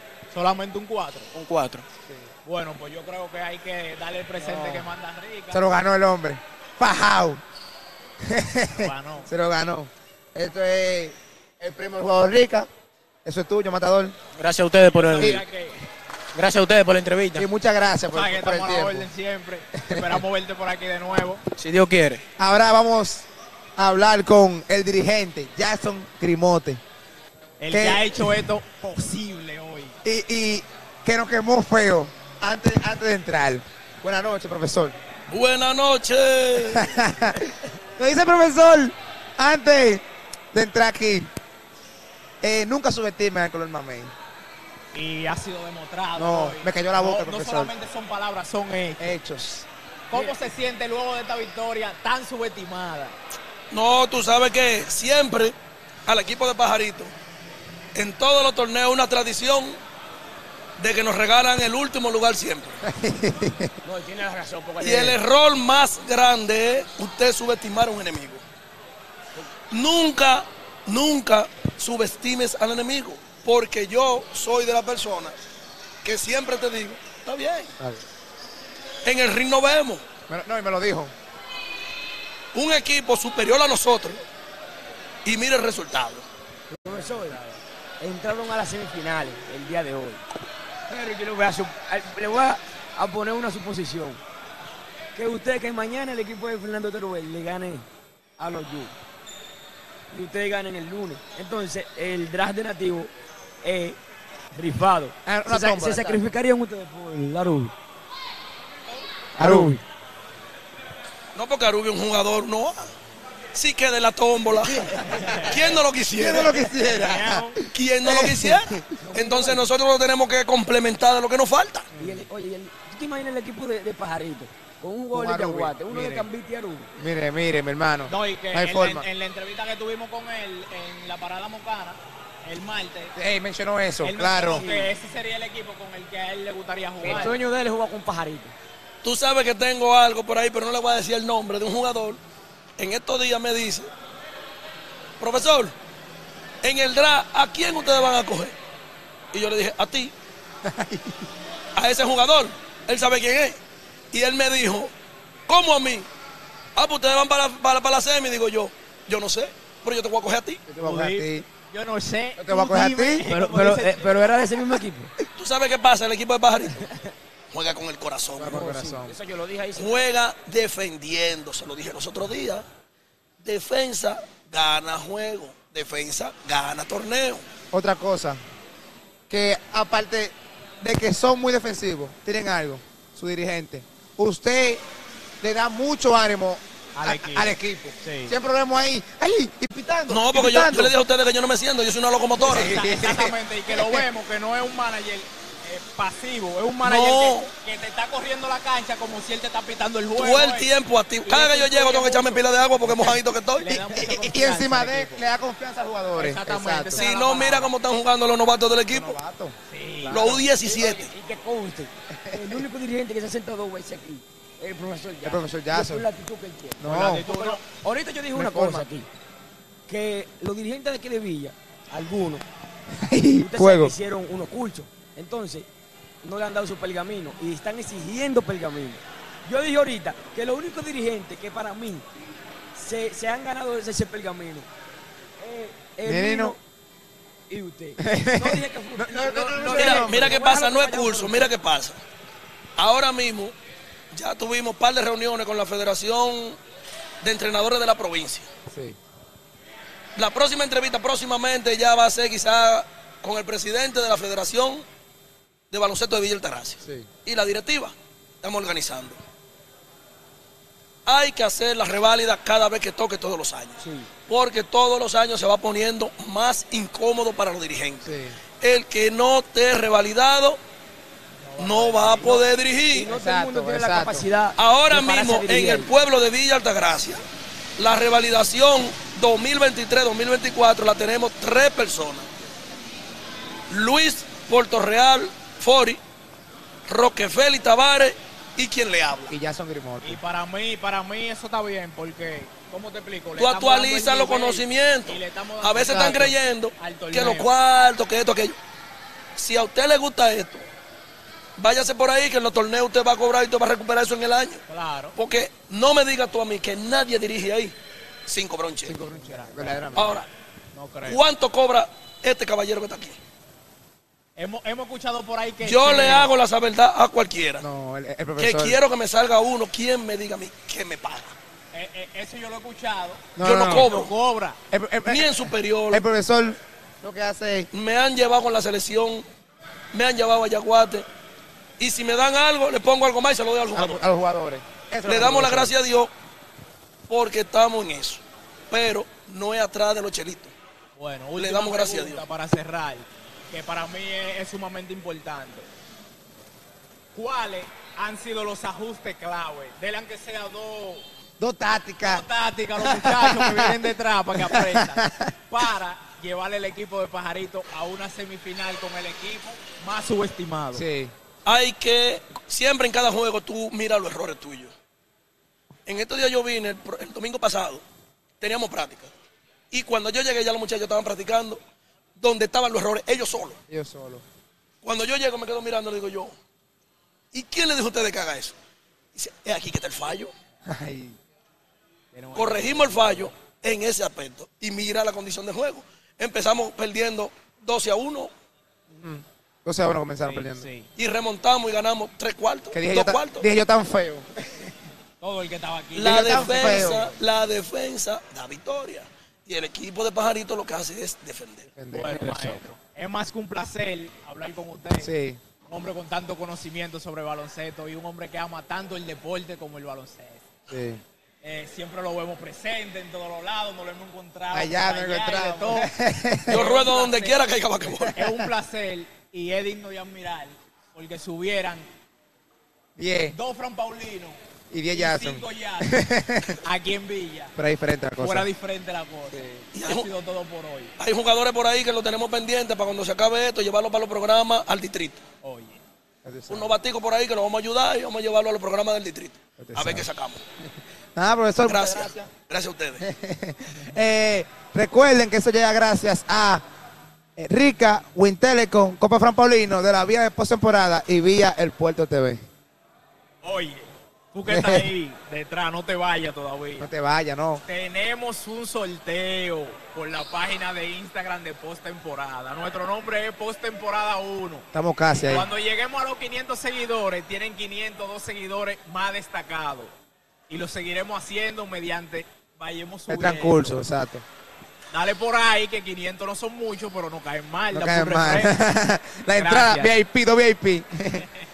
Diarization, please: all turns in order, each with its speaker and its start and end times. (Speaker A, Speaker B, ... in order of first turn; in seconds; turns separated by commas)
Speaker A: 0.3-1.3, Speaker B: 1.3-1.8, Speaker A: 2.4-5.6, Speaker C: 4.5-4.9, Speaker C: 5.5-7.4, Speaker C: 8.2-12.7, Speaker A: 8.8-9.3, Speaker C: 13.2-14.1, Speaker B: 14.4-15.4, Speaker A: 15.0-15.9, Speaker C: 15.2-15.4, Speaker B: 16.3-17.5, Speaker C: 17.4-19.1, Speaker A: 18.1-21.4, Speaker C: 19.8-20.2, Speaker B: 21.6-22.2, Speaker C: 22.4-26.8, Speaker A: 27.6-30.0, Speaker C: 27.7-28.1, Speaker C: 30.0-35.0, Speaker D: 35.3-37.1, Speaker C: 36.7-37.4, Speaker C: 38.0-41.3, Speaker C: 42.4-44.1, Speaker A: 44.9-49.2, Speaker C: 46.1-47.7, Speaker C: 49.0-49.7, Speaker A: 50.1-53.1, Speaker D: 53.7-55.5, Speaker D: 56.1-57.1, Speaker D: 58.0-59.8, Speaker D: 60.8-62.8, Speaker C: 62.8-63.7, Speaker E: 63.8-65.2, Speaker D: 64.8-68.4, Speaker D: 69.7-75.4, Speaker D: 76.0-77.7, Speaker D: 79.0-80.0, Speaker C: 80.3-81.1, Speaker D: 82.5-84.2, Speaker D: 85.2-86.2, Speaker E: 86.7-87.5, Speaker E: 88.0-90.2, Speaker E: 90.9-94.2, Speaker E: 95.1-97.9, Speaker E: 98.4-98.9, Speaker E: 100.1-103.1, Speaker E: 103.6-104.0, Speaker E: 104.5-107.7, Speaker C: 105.2-106.2, Speaker C: 109.4-109.7, Speaker E: 109.4-109.8, Speaker D: 111.3-112.9, Speaker D: 113.5-116.6, Speaker A: 115.2-115.6, Speaker C: 116.2-118.8, Speaker A: 116.8-117.5, Speaker D: 117.7-121.9, Speaker E: 119.0-119.7, Speaker C: 122.0-122.3, Speaker E: 122.0-126.9, Speaker C: 125.1-126.2, Speaker C: 127.0-129.1, Speaker A: 128.1-133.1, Speaker C: 133.2-134.7, Speaker A: 134.0-137.4, Speaker E: 134.5-134.9, Speaker E: 137.0-138.5, Speaker D: 139.0-142.2, Speaker D: 142.8-143.9, Speaker D: 145.2-145.8, Speaker D: 146.6-148.6, Speaker D: 149.3-150.1, Speaker C: 150.6-151.3, Speaker D: 151.8-153.6, Speaker D: 154.1-154.9, Speaker D: 155.5-156.1, Speaker D: 156.8-160.6, Speaker C: 160.7-161.4, Speaker A: 160.8-164.3, Speaker C: 162.4-163.3, Speaker E: 163.2-165.1, Speaker D: 165.3-166.9, Speaker E: 166.7-167.1, Speaker D: 167.5-168.6, Speaker C: 168.4-169.1, Speaker E: 168.4-170.1, Speaker D: 169.8-172.6, Speaker D: 173.4-177.4, Speaker C: 177.7-178.4, Speaker C: 179.3-184.8, Speaker C: 185.4-190.9, Speaker A: 186.9-188.3, Speaker D: 190.1-192.8, Speaker A: 192.4-200.7, Speaker C: 192.4-194.0, Speaker D: 196.8-197.5, Speaker D: 200.2-203.9, Speaker A: 201.2-205.2, Speaker C: 203.9-207.1, Speaker A: 206.1-207.7, Speaker D: 206.9-209.2, Speaker C: 208.9-210.4, Speaker A: 209.7-210.3, Speaker D: 210.1-211.1, Speaker E: 210.5-219.1, Speaker C: 212.1-212.7, Speaker C: 215.2-216.1, Speaker C: 216.8-217.3, Speaker A: 216.8-217.7, Speaker C: 218.3-218.8, Speaker E: 219.9-222.4, Speaker C: 223.0-223.9, Speaker E: 223.4-225.7, Speaker E: 226.2-232.1, Speaker E: 232.8-234.7, Speaker E: 235.4-236.6, Speaker C: 236.1-236.6, Speaker E: 237.5-241.6, Speaker C: 238.0-240.4, Speaker D: 239.7-242.0, Speaker D: 242.8-243.6, Speaker D: 244.1-246.6, Speaker D: 247.2-248.5, Speaker C: 248.7-249.0, Speaker D: 250.2-254.8, Speaker D: 255.7-259.2, Speaker C: 256.8-257.1, Speaker D: 261.1-270.6, Speaker E: 263.8-264.1, Speaker C: 268.0-268.4, Speaker A: 271.4-272.4, Speaker D: 271.6-273.1, Speaker E: 272.9-275.9, Speaker C: 273.1-274.3, Speaker D: 274.6-277.2, Speaker D: 277.8-282.3, Speaker D: 283.7-286.0, Speaker D: 286.9-289.3, Speaker C: 289.3-290.2, Speaker A: 290.0-297.5, Speaker D: 293.4-298.6, Speaker C: 295.8-296.3, Speaker D: 299.4-300.6, Speaker D: 301.6-304.6, Speaker A: 304.7-305.1, Speaker D: 305.1-307.8, Speaker D: 308.3-309.0, Speaker C: 308.9-310.2, Speaker A: 309.1-310.0, Speaker D: 309.9-310.3, Speaker A: 310.7-311.2, Speaker D: 311.1-313.2, Speaker A: 314.4-316.3, Speaker D: 315.6-317.6, Speaker C: 317.6-318.8, Speaker D: 318.4-321.3, Speaker A: 321.7-324.6, Speaker C: 323.4-323.9, Speaker D: 323.4-324.1, Speaker C: 324.7-327.7, Speaker D: 325.1-326.0, Speaker D: 327.7-329.2, Speaker D: 329.9-331.1, Speaker D: 331.8-334.1, Speaker C: 333.7-335.7, Speaker D: 335.0-336.1, Speaker D: 337.1-340.5, Speaker A: 341.0-345.7, Speaker D: 341.4-342.2, Speaker A: 347.1-351.0, Speaker C: 351.4-352.2, Speaker A: 352.0-360.9, Speaker C: 352.8-353.8, Speaker C: 354.4-355.3, Speaker C: 360.7-361.1, Speaker D: 361.4-364.7, Speaker D: 365.9-367.8, Speaker D: 368.4-369.1, Speaker D: 369.7-371.6, Speaker D: 372.2-373.6, Speaker C: 373.7-374.2, Speaker D: 374.8-376.4, Speaker D: 377.3-378.6, Speaker D: 379.1-380.3, Speaker C: 380.6-381.2, Speaker A: 382.1-383.3, Speaker D: 382.3-388.3, Speaker C: 389.0-390.6, Speaker A: 390.2-390.9, Speaker D: 391.0-393.5, Speaker C: 392.7-394.7, Speaker A: 395.2-397.1, Speaker D: 395.9-401.7, Speaker C: 396.0-397.1, Speaker C: 401.8-402.6, Speaker A: 401.9-405.1, Speaker C: 405.0-405.4, Speaker A: 405.7-410.5, Speaker C: 410.7-411.0, Speaker A: 411.4-415.9, Speaker C: 414.5-416.6, Speaker D: 416.5-418.1, Speaker A: 416.5-417.4, Speaker C: 417.8-418.3, Speaker A: 418.1-421.9, Speaker C: 423.0-423.4, Speaker A: 423.3-424.4, Speaker C: 424.7-426.6, Speaker A: 424.9-426.0, Speaker A: 426.6-427.5, Speaker C: 427.6-428.5, Speaker A: 428.2-430.9, Speaker C: 429.3-429.7, Speaker D: 429.7-430.1, Speaker D: 431.0-435.2, Speaker A: 435.4-435.8, Speaker C: 436.2-436.8, Speaker D: 436.5-440.4, Speaker C: 439.6-440.1, Speaker C: 441.1-442.3, Speaker D: 441.6-443.1, Speaker C: 443.0-446.6, Speaker C: 447.4-452.4, Speaker A: 453.4-456.9, Speaker C: 454.5-454.9, Speaker C: 456.8-457.6, Speaker A: 457.6-464.6, Speaker C: 464.7-465.5, Speaker A: 465.2-469.9, Speaker A: 470.5-473.8, Speaker C: 473.1-474.2, Speaker A: 474.9-478.5, Speaker C: 477.7-481.2, Speaker A: 479.4-479.9